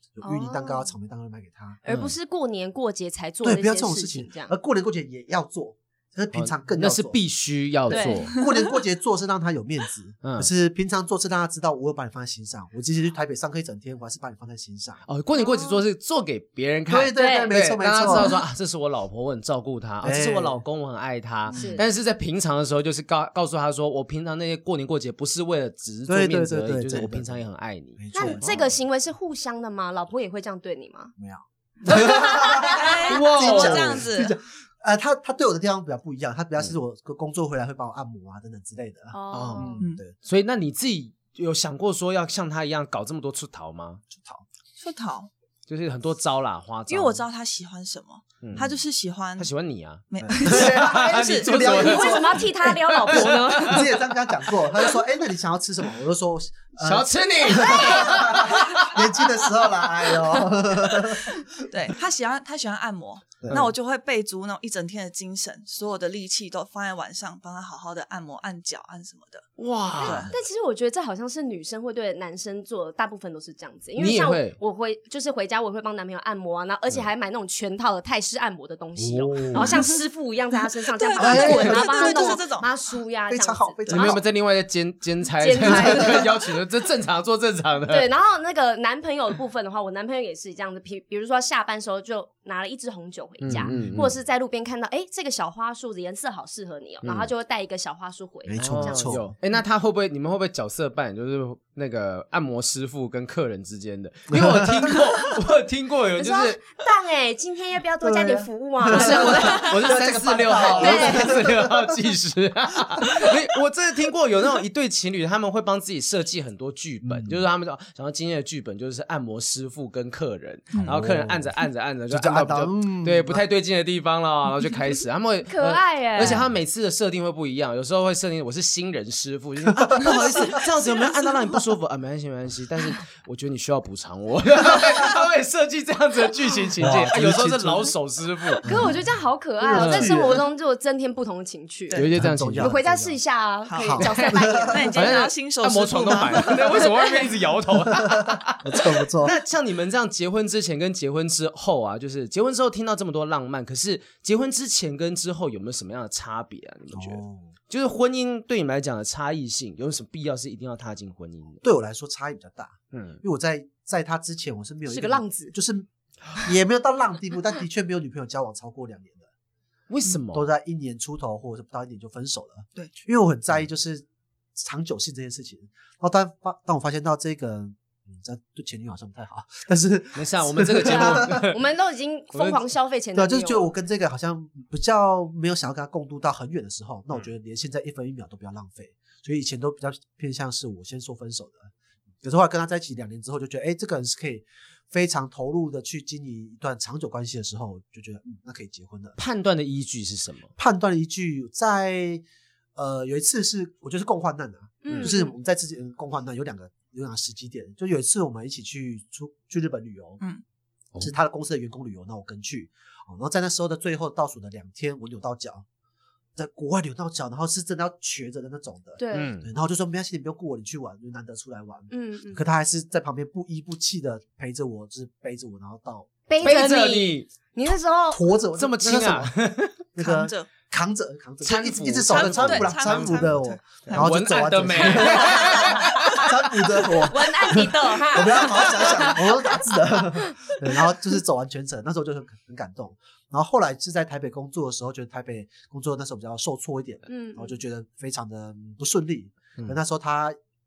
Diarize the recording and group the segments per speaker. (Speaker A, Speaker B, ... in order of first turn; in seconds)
Speaker A: 0.1-1.8, 3.4-7.2, 7.9-15.0, 16.9-18.4, 20.0-20.6, 21.5-21.8, 26.1-27.4, 28.0-28.6, 31.2-40.1, 44.1-44.4, 50.2-61.6, 63.4-63.7, 79.0-79.9, 81.2-82.5, 83.3-84.2, 85.6-86.2, 93.5-94.0, 98.5-99.3, 104.3-105.0, 108.0-112.0, 113.0-113.3, 117.0-117.4, 120.7-121.5, 122.1-123.4, 129.7-130.6, 136.8-137.9, 138.6-139.0, 139.6-140.5, 142.1-143.2, 143.7-144.9, 147.9-149.3, 156.9-157.5, 161.6-169.3, 170.3-181.4, 183.1-191.7, 192.2-199.2, 200.6-202.2, 202.8-210.2, 211.0-215.7, 216.4-226.2, 228.1-250.4
Speaker B: 0.2-0.9, 1.8-4.5, 7.9-8.4, 15.4-15.8, 17.1-17.6, 21.5-21.9, 28.1-31.1, 31.9-33.2, 39.1-39.8, 51.6-54.0, 57.6-58.1, 70.0-84.2, 85.4-86.3, 87.9-99.2, 106.2-110.0, 110.6-111.4, 125.5-126.4, 138.6-142.1, 142.6-145.3, 164.9-165.5, 180.8-183.7, 204.8-205.3, 219.0-219.3, 221.9-222.4, 226.3-228.2, 236.8-239.7, 247.1-247.6
Speaker C: 1.9-2.1, 6.3-8.4, 10.2-10.5, 15.1-28.7, 33.1-34.0, 39.3-44.0, 45.7-47.2, 48.4-48.7, 49.4-53.9, 56.8-59.0, 69.6-70.3, 74.0-74.6, 83.9-88.1, 93.4-94.1, 97.0-97.3, 98.6-106.7, 108.9-138.7, 139.7-140.2, 141.9-142.8, 144.0-144.4, 144.9-161.6, 162.9-163.2, 169.9-170.5, 180.2-181.6, 182.3-182.6, 199.2-200.5, 204.9-205.1, 219.1-219.5, 226.4-227.3, 228.6-229.8, 231.4-236.5
Speaker D: 32.6-34.4, 44.8-45.3, 46.9-49.5, 50.1-51.8, 61.6-69.5, 70.0-70.3, 80.8-82.7, 143.7-147.2, 230.0-230.5, 232.1-234.1, 235.0-235.6